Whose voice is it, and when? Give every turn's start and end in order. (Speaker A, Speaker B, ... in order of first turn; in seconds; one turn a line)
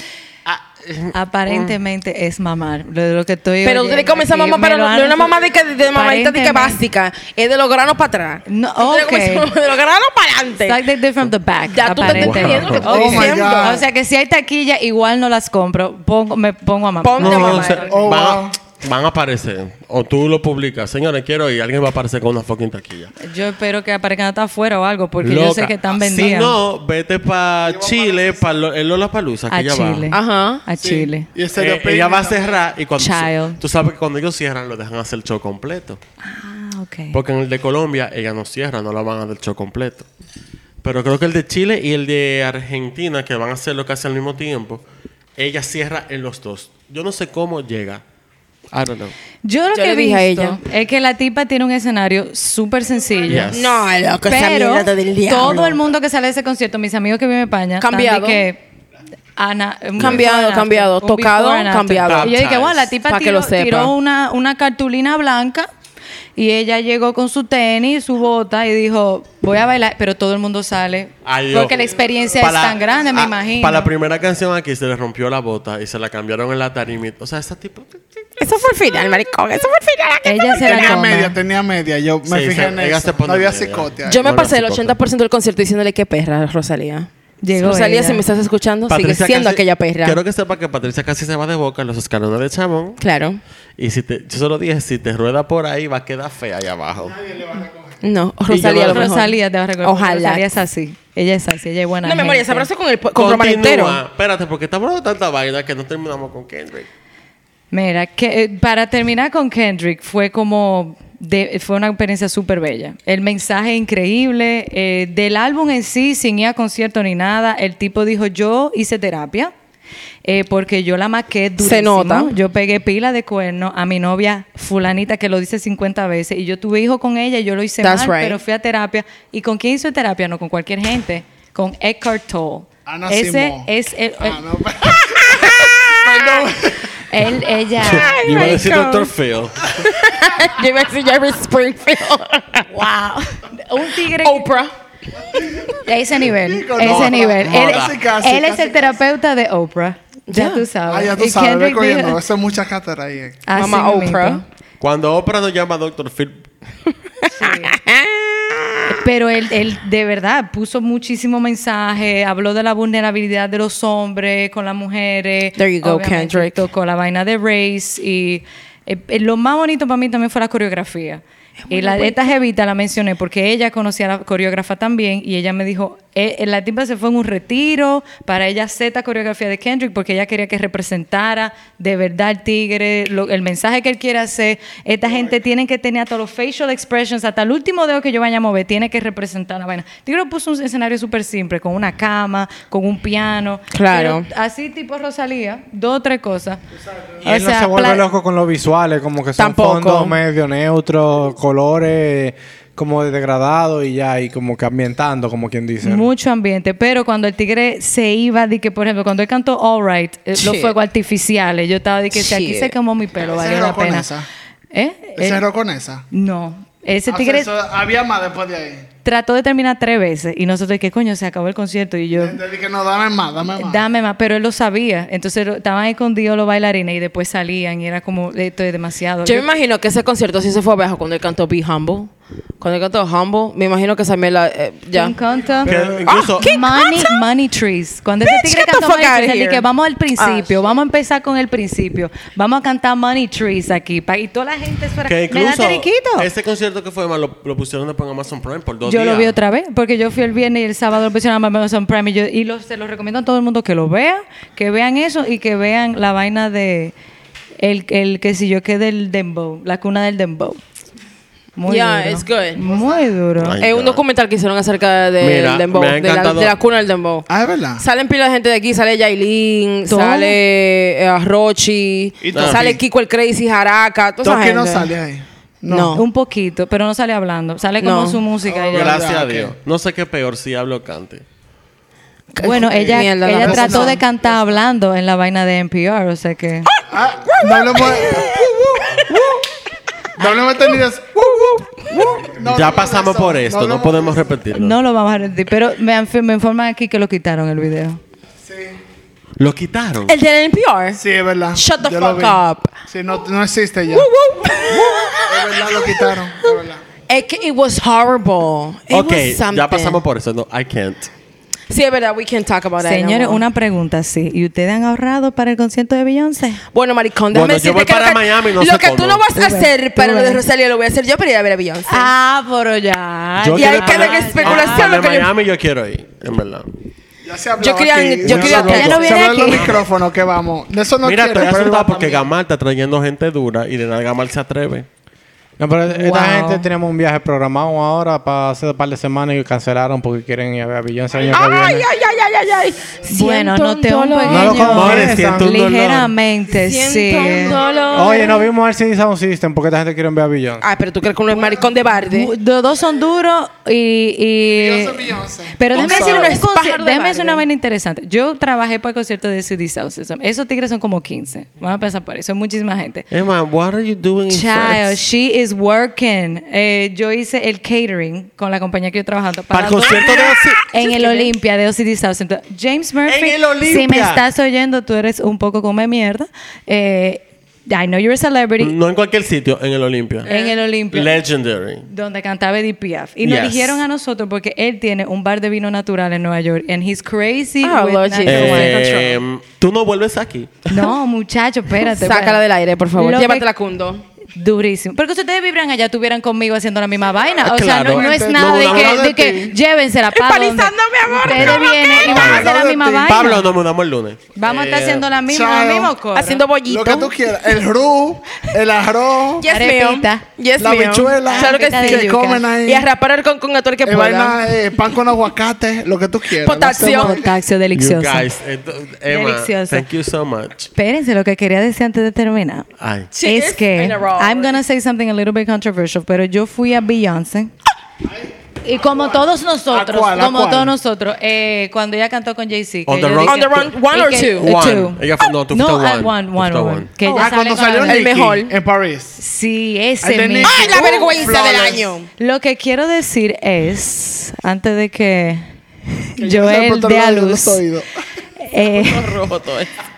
Speaker A: 0.5-1.8
Speaker B: 1.1-6.8
Speaker C: 3.6-10.8
Speaker B: 8.5-9.5
Speaker B: 10.6-18.1
Speaker C: 11.7-13.8
Speaker A: 12.0-12.9
Speaker D: 12.9-13.8
Speaker C: 17.0-17.9
Speaker A: 17.2-23.1
Speaker D: 17.9-18.5
Speaker B: 23.2-26.6
Speaker A: 25.2-30.1
Speaker D: 27.6-28.4
Speaker B: 29.5-31.3
Speaker C: 30.1-30.6
Speaker D: 30.8-32.6
Speaker A: 31.5-36.0
Speaker B: 33.0-33.6
Speaker B: 36.2-37.2
Speaker A: 37.1-40.1
Speaker A: 40.8-44.8
Speaker A: 45.4-48.0
Speaker A: 48.7-49.1
Speaker B: 49.4-53.6
Speaker C: 49.7-50.6
Speaker A: 53.2-53.7
Speaker C: 53.5-55.8
Speaker B: 54.3-58.6
Speaker C: 57.8-58.4
Speaker B: 59.4-65.7
Speaker C: 60.0-62.4
Speaker A: 62.0-62.9
Speaker C: 63.0-63.9
Speaker B: 66.3-73.9
Speaker A: 71.2-71.8
Speaker A: 72.3-78.0
Speaker C: 78.4-81.0
Speaker B: 80.2-81.4
Speaker D: 80.6-84.2
Speaker A: 82.2-85.0
Speaker C: 84.0-90.2
Speaker B: 87.4-88.2
Speaker A: 88.9-93.0
Speaker C: 93.0-93.4
Speaker A: 93.8-97.2
Speaker D: 97.2-98.0
Speaker C: 98.0-100.5
Speaker A: 98.5-99.1
Speaker B: 98.8-102.7
Speaker C: 102.0-104.0
Speaker A: 103.1-106.9
Speaker B: 107.7-119.5
Speaker B: 120.2-134.4
Speaker C: 121.6-122.3
Speaker C: 127.8-128.4
Speaker D: 132.8-133.7
Speaker D: 134.2-136.9
Speaker C: 135.1-136.0
Speaker B: 137.1-138.6
Speaker A: 137.8-139.8
Speaker C: 137.8-139.1
Speaker C: 139.8-142.6
Speaker B: 142.7-144.5
Speaker C: 144.2-144.7
Speaker C: 145.3-145.7
Speaker B: 145.8-152.2
Speaker D: 146.4-149.0
Speaker A: 146.8-148.0
Speaker C: 150.3-150.7
Speaker D: 150.9-153.4
Speaker B: 153.4-154.4
Speaker C: 153.5-154.4
Speaker A: 154.8-156.4
Speaker C: 157.2-158.9
Speaker B: 157.3-157.8
Speaker B: 158.9-196.6
Speaker C: 165.6-166.7
Speaker C: 171.7-172.2
Speaker D: 185.1-185.4
Speaker C: 193.7-194.3
Speaker E: 197.2-206.1
Speaker B: 197.2-198.1
Speaker C: 199.4-200.2
Speaker B: 205.8-214.1
Speaker C: 210.3-210.7
Speaker C: 212.1-212.7
Speaker D: 213.2-214.3
Speaker B: 214.7-215.4
Speaker D: 215.2-216.1
Speaker B: 216.1-217.5
Speaker D: 217.1-218.9
Speaker B: 219.0-222.4
Speaker D: 222.1-223.8
Speaker B: 223.5-229.4
Speaker C: 229.2-235.2
Speaker B: 234.9-246.3
Speaker A: 235.6-236.5
Speaker C: 236.1-237.2
Speaker C: 238.2-240.5
Speaker A: 245.1-249.3
Speaker B: 248.8-256.9
Speaker B: 257.6-260.6
Speaker B: 261.6-263.6
Speaker C: 261.6-262.6
Speaker A: 263.4-264.0
Speaker C: 263.6-274.9
Speaker A: 265.2-266.6
Speaker D: 267.3-267.8
Speaker B: 269.9-270.4
Speaker D: 272.2-272.8
Speaker A: 272.3-272.8
Speaker D: 274.2-276.0
Speaker C: 275.7-276.0
Speaker B: 275.9-279.0
Speaker C: 277.8-278.2
Speaker D: 278.4-279.5
Speaker A: 278.7-281.2
Speaker C: 282.3-284.0
Speaker B: 282.4-286.7
Speaker D: 282.4-284.0
Speaker D: 286.9-288.5
Speaker C: 287.2-289.4
Speaker D: 290.2-294.3
Speaker C: 291.2-292.2
Speaker A: 292.4-294.8
Speaker B: 294.5-298.0
Speaker D: 298.4-298.8
Speaker A: 299.4-300.1
Speaker C: 300.1-301.0
Speaker D: 300.9-304.1
Speaker C: 301.5-302.7
Speaker C: 303.9-306.5
Speaker D: 305.3-306.8
Speaker C: 307.1-310.0
Speaker A: 308.9-311.1
Speaker C: 311.7-313.4
Speaker B: 312.8-316.6
Speaker C: 316.7-322.1
Speaker A: 317.3-319.2
Speaker B: 319.3-320.4
Speaker B: 321.9-324.9
Speaker A: 323.4-326.7
Speaker C: 323.5-325.3
Speaker D: 327.2-332.2
Speaker C: 327.6-329.5
Speaker E: 328.3-328.9
Speaker A: 328.3-329.8
Speaker B: 328.3-329.8
Speaker A: 331.0-334.9
Speaker E: 335.6-341.9
Speaker B: 335.9-336.7
Speaker C: 341.3-344.8
Speaker D: 341.3-341.6
Speaker B: 343.1-347.6
Speaker E: 344.2-345.7
Speaker A: 344.6-346.1
Speaker C: 346.5-348.5
Speaker E: 347.9-350.6
Speaker C: 350.6-352.3
Speaker B: 352.0-363.1
Speaker D: 354.5-356.3
Speaker C: 355.7-357.4
Speaker A: 363.1-365.0
Speaker B: 364.3-378.7
Speaker A: 369.5-371.1
Speaker C: 370.0-370.3
Speaker C: 370.8-371.2
Speaker A: 373.1-374.2
Speaker A: 378.6-380.3
Speaker B: 380.2-381.2
Speaker C: 380.3-380.5
Speaker A: 380.9-381.9
Speaker B: 381.9-389.2
Speaker A: 383.2-383.8
Speaker C: 387.6-389.0
Speaker A: 388.2-390.9
Speaker B: 390.7-393.4
Speaker C: 391.8-394.0
Speaker B: 394.3-403.5
Speaker A: 397.4-399.5
Speaker D: 397.9-399.5
Speaker C: 400.1-402.3
Speaker A: 401.3-402.5
Speaker D: 402.0-403.3
Speaker A: 403.0-404.3
Speaker B: 404.3-406.4
Speaker C: 404.4-405.0
Speaker D: 405.2-405.9
Speaker C: 406.1-407.3
Speaker D: 406.6-409.4
Speaker C: 409.4-414.4
Speaker B: 409.4-410.2
Speaker D: 410.6-412.9
Speaker B: 411.2-412.4
Speaker D: 413.8-417.3
Speaker C: 416.4-417.2
Speaker B: 416.8-418.3
Speaker A: 417.7-420.7
Speaker B: 419.1-419.9
Speaker B: 420.8-422.7
Speaker A: 422.8-423.1
Speaker C: 423.1-424.5
Speaker B: 423.2-427.5
Speaker B: 428.6-438.1
Speaker D: 429.7-430.7
Speaker A: 432.9-433.6
Speaker C: 433.2-434.5
Speaker A: 434.4-436.9
Speaker C: 437.0-438.5
Speaker D: 437.1-439.2
Speaker B: 439.2-441.2
Speaker D: 440.0-441.9
Speaker C: 440.4-442.1
Speaker B: 442.2-447.6
Speaker D: 446.2-447.9
Speaker B: 448.4-449.2
Speaker C: 448.6-449.7